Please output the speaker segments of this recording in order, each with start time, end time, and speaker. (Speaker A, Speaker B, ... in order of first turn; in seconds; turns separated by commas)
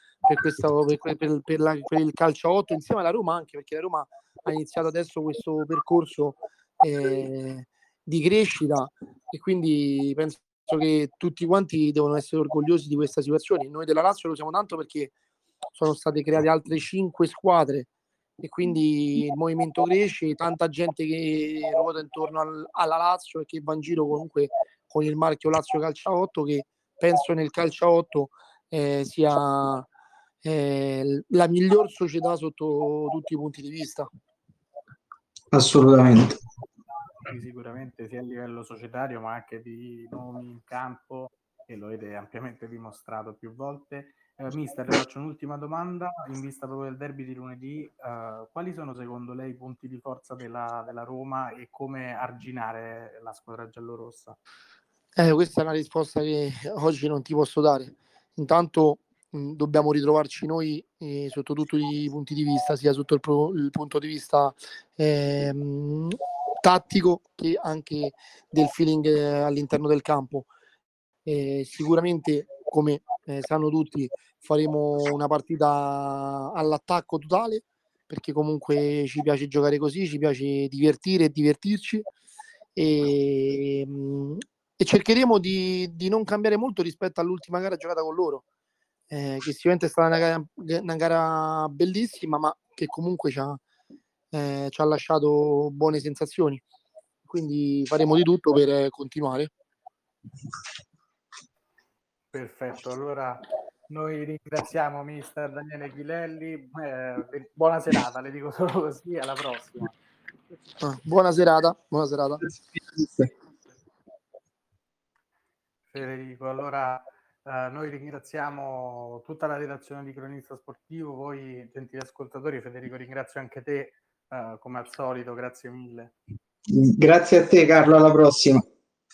Speaker A: 0.2-15.1, Speaker A: 15.7-17.9, Speaker A: 18.4-29.9, Speaker A: 30.4-34.1, Speaker B: 35.5-36.4, Speaker C: 37.2-54.4, Speaker A: 55.1-70.5, Speaker A: 71.2-82.1, Speaker A: 82.8-88.4, Speaker A: 89.1-93.6, Speaker A: 94.3-96.6, Speaker A: 97.2-99.5, Speaker C: 102.3-110.0, Speaker A: 110.8-112.4, Speaker B: 112.5-113.3, Speaker C: 115.9-126.2, Speaker B: 126.7-128.6